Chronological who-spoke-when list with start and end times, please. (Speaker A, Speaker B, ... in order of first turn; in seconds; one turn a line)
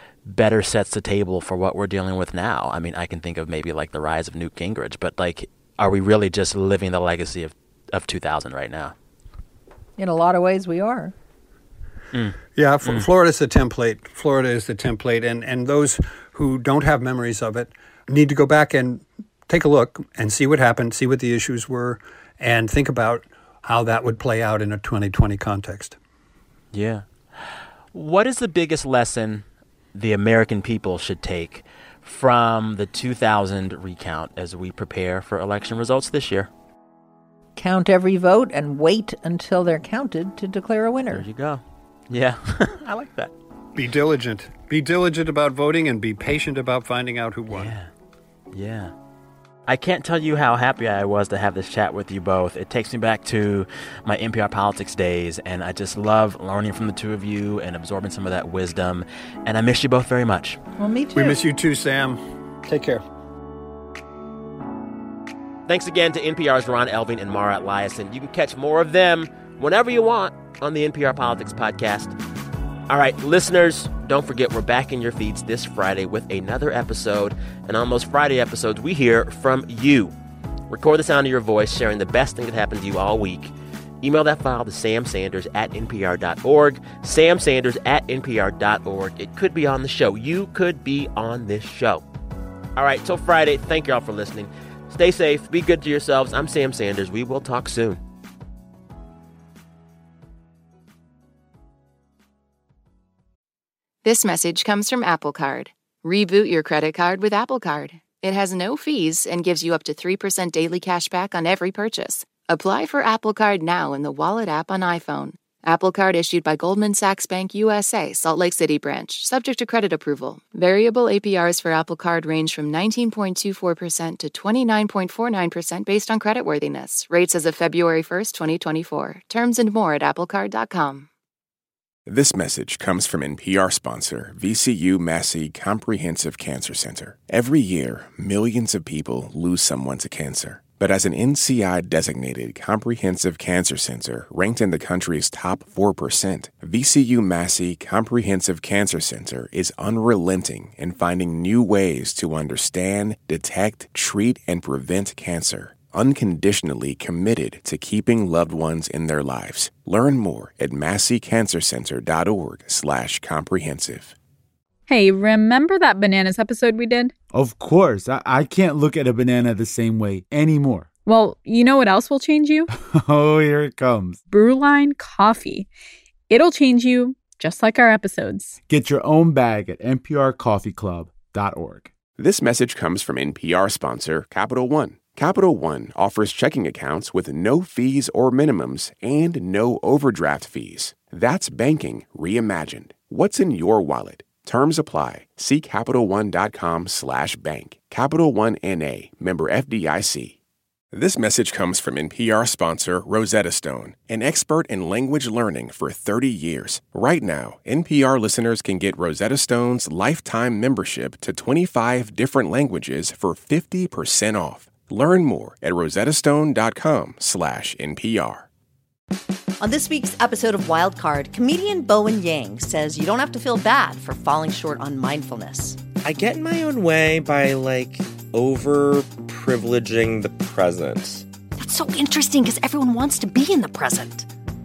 Speaker A: 0.2-8.9
Speaker B: 10.0-11.1
Speaker A: 12.1-13.1
Speaker C: 12.6-26.0
Speaker A: 26.7-36.5
Speaker B: 37.6-41.3
Speaker A: 41.1-43.3
Speaker C: 43.8-47.7
Speaker A: 47.5-47.9
Speaker A: 48.5-48.9
Speaker A: 49.7-60.6
Speaker B: 60.8-61.4
Speaker C: 61.1-63.0
Speaker A: 65.7-72.2
Speaker A: 72.9-80.2
Speaker A: 80.7-92.0
Speaker A: 92.8-98.0
Speaker D: 104.0-131.1
Speaker E: 132.1-164.1
Speaker F: 164.9-167.1
Speaker G: 167.3-170.9
Speaker F: 171.1-172.7
Speaker G: 172.7-174.2
Speaker F: 174.3-175.7
Speaker F: 176.3-178.6
Speaker G: 178.7-181.9
Speaker E: 182.2-200.4
Speaker E: 200.9-218.5
Speaker H: 219.6-225.8
Speaker I: 226.0-231.2
Speaker H: 231.6-234.3